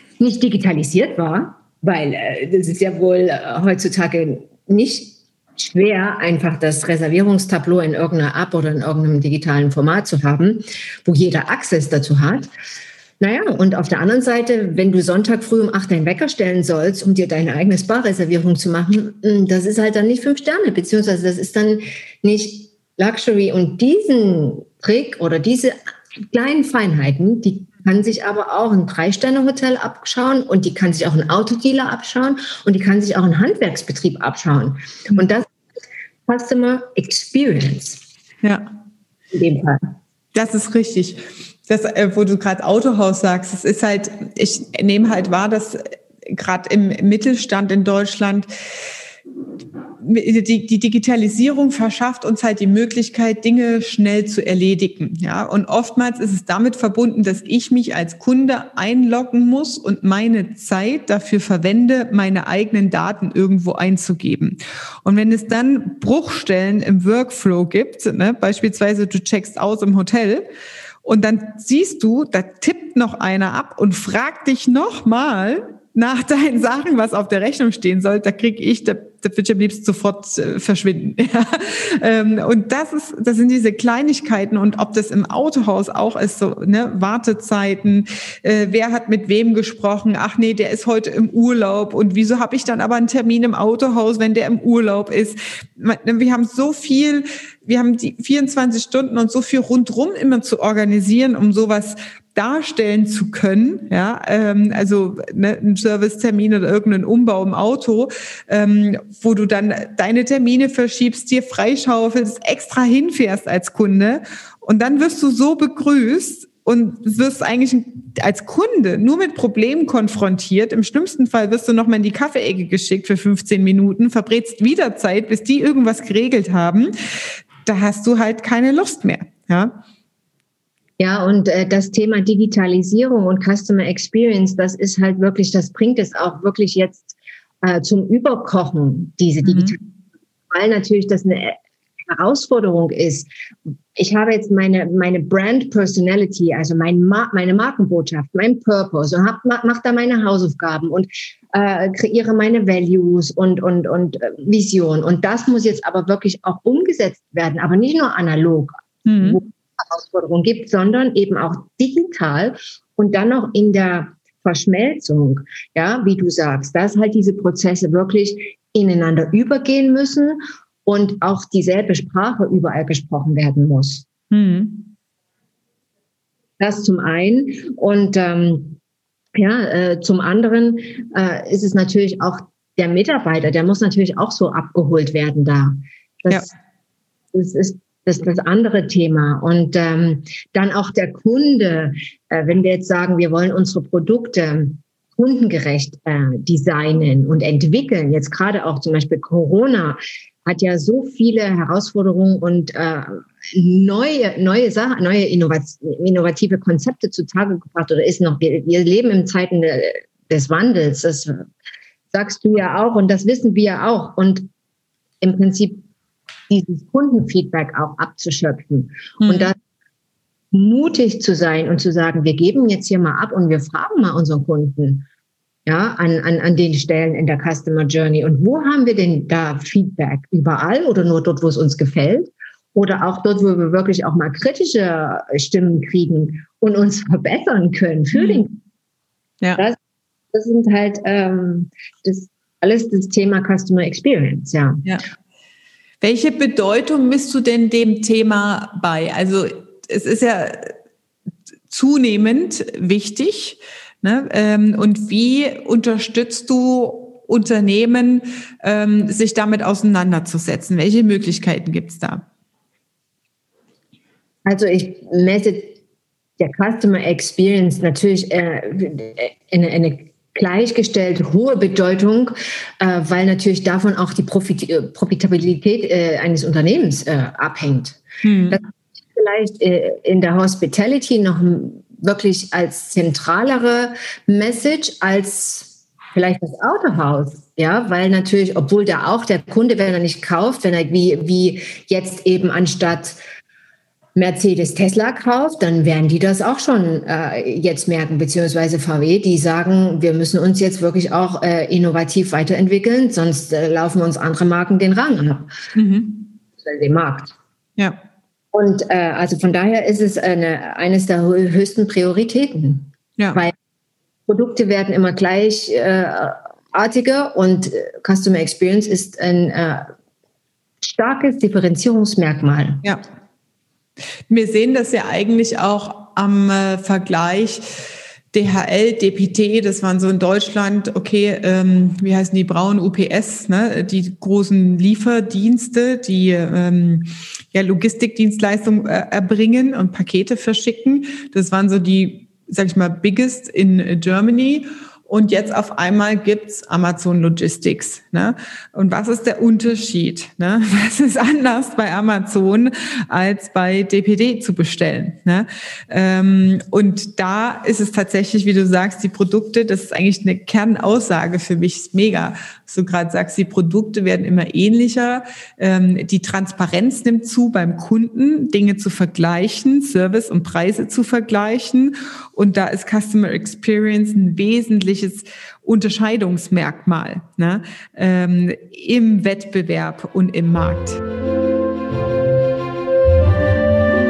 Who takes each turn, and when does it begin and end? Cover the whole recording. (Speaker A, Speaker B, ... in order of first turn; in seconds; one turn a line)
Speaker A: 0.2-12.5
Speaker A: 13.2-25.8
Speaker A: 26.3-35.5
Speaker A: 36.3-38.0
Speaker B: 38.4-38.7
Speaker A: 39.3-39.8
Speaker B: 40.3-48.5
Speaker B: 50.0-70.5
Speaker B: 71.0-126.9
Speaker B: 127.6-129.8
Speaker A: 131.0-139.8
Speaker B: 139.4-139.8
Speaker A: 140.5-143.3
Speaker A: 143.9-174.1
Speaker B: 159.0-159.4
Speaker B: 174.3-174.9
Speaker A: 176.6-178.8
Speaker A: 179.4-186.5
Speaker A: 187.3-211.4
Speaker A: 212.1-214.5
Speaker A: 215.2-215.8
Speaker A: 216.5-219.6
Speaker B: 219.2-219.5
Speaker A: 220.5-225.1
Speaker A: 225.7-238.6
Speaker B: 238.1-238.4
Speaker A: 240.3-244.8
Speaker B: 246.0-250.7
Speaker B: 251.7-262.2
Speaker A: 264.4-265.8
Speaker A: 266.4-293.2
Speaker B: 278.2-278.6
Speaker A: 294.1-305.5
Speaker B: 305.7-306.3
Speaker A: 306.6-307.3
Speaker A: 308.5-313.5
Speaker B: 313.2-313.4
Speaker A: 314.3-319.8
Speaker A: 320.8-322.8
Speaker B: 324.3-327.6
Speaker B: 328.3-381.0